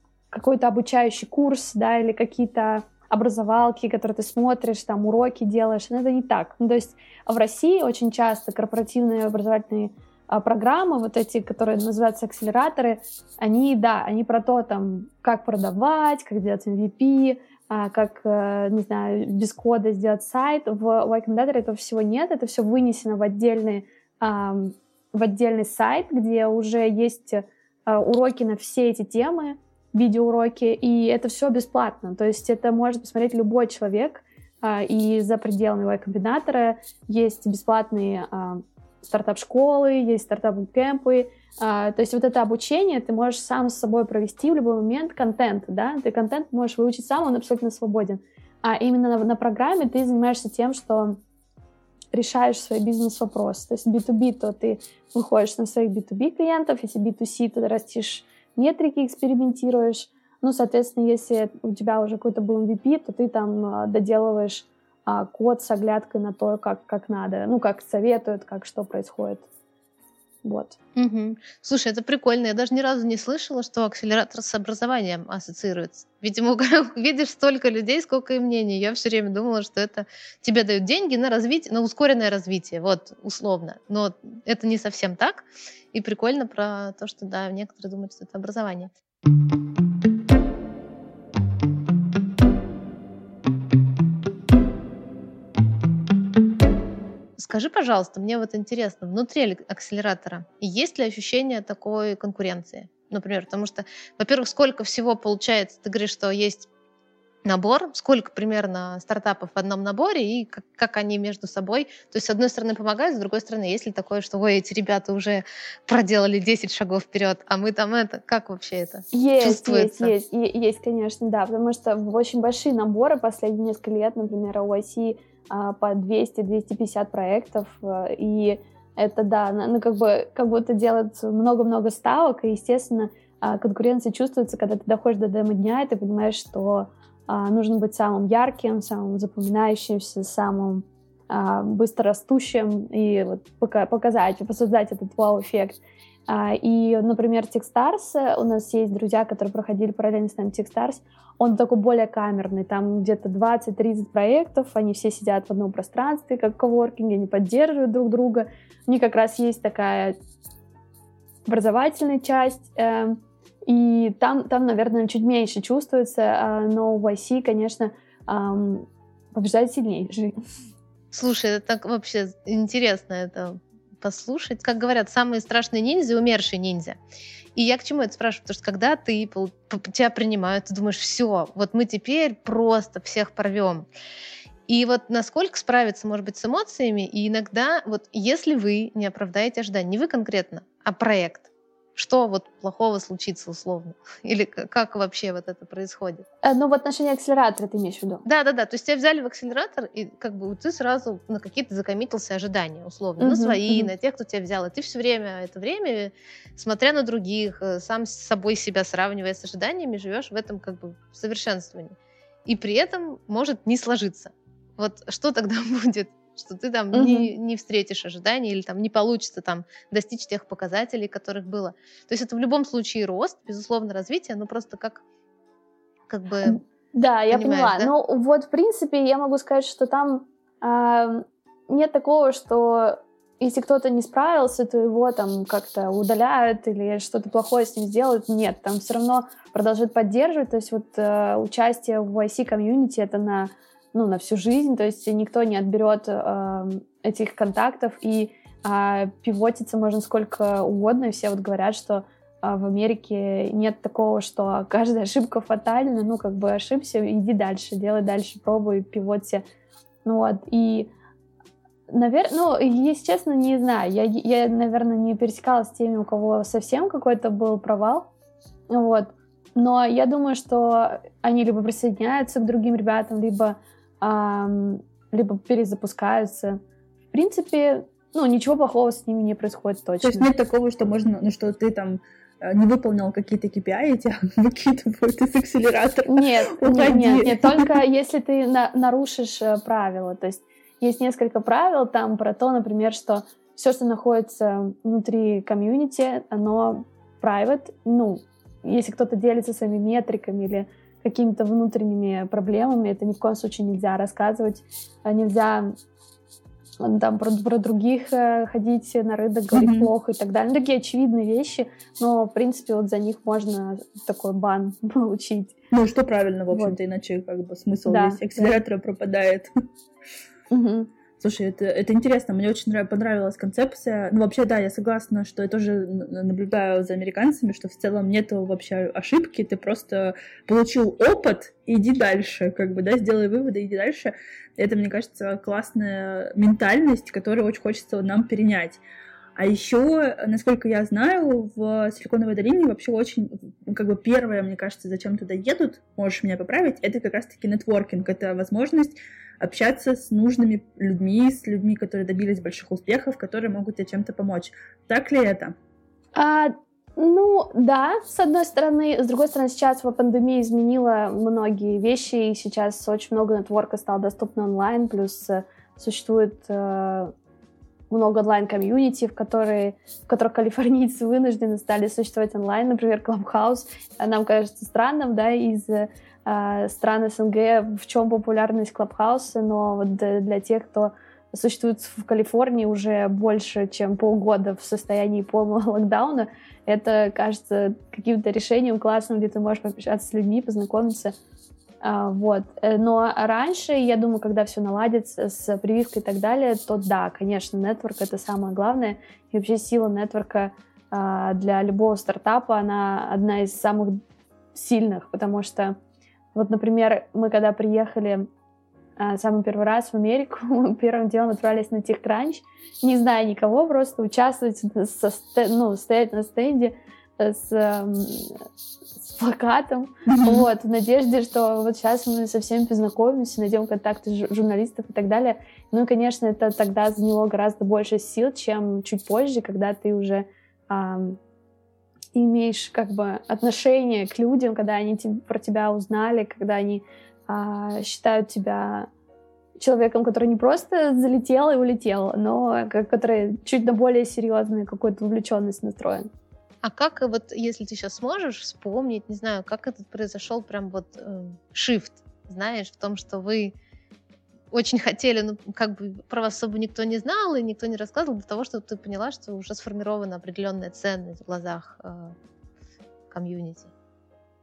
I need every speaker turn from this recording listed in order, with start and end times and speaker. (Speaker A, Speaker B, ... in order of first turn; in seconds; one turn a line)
Speaker A: 0.3-51.2
Speaker A: 52.1-69.4
Speaker A: 70.4-70.8
Speaker B: 71.0-88.9
Speaker B: 97.4-106.7
Speaker B: 107.4-120.1
Speaker A: 119.1-160.1
Speaker A: 161.4-170.3
Speaker B: 171.1-177.0
Speaker B: 177.6-183.8
Speaker B: 184.7-196.2
Speaker A: 196.4-198.2
Speaker B: 198.2-211.9
Speaker A: 203.2-203.9
Speaker B: 212.4-225.0
Speaker A: 216.9-217.3
Speaker B: 226.1-226.6
Speaker A: 226.4-259.4
Speaker B: 227.3-227.9
Speaker A: 260.0-260.9
Speaker A: 261.9-268.1
Speaker A: 268.7-276.6
Speaker A: 277.1-280.3
Speaker C: 280.0-287.7
Speaker A: 286.1-305.7
Speaker A: 306.8-315.5
Speaker C: 309.5-309.9
Speaker C: 315.7-319.5
Speaker A: 316.5-316.8
Speaker A: 317.9-318.5
Speaker A: 320.5-320.9
Speaker C: 321.2-338.8
Speaker C: 339.4-355.5
Speaker A: 356.1-367.1
Speaker A: 367.9-391.1
Speaker A: 391.8-404.0
Speaker A: 404.5-405.8
Speaker A: 406.3-408.3
Speaker A: 409.0-418.4
Speaker A: 419.0-431.2
Speaker C: 420.1-420.5
Speaker A: 432.1-438.9
Speaker A: 439.6-446.1
Speaker B: 446.6-453.5
Speaker B: 454.5-462.1
Speaker B: 463.1-463.7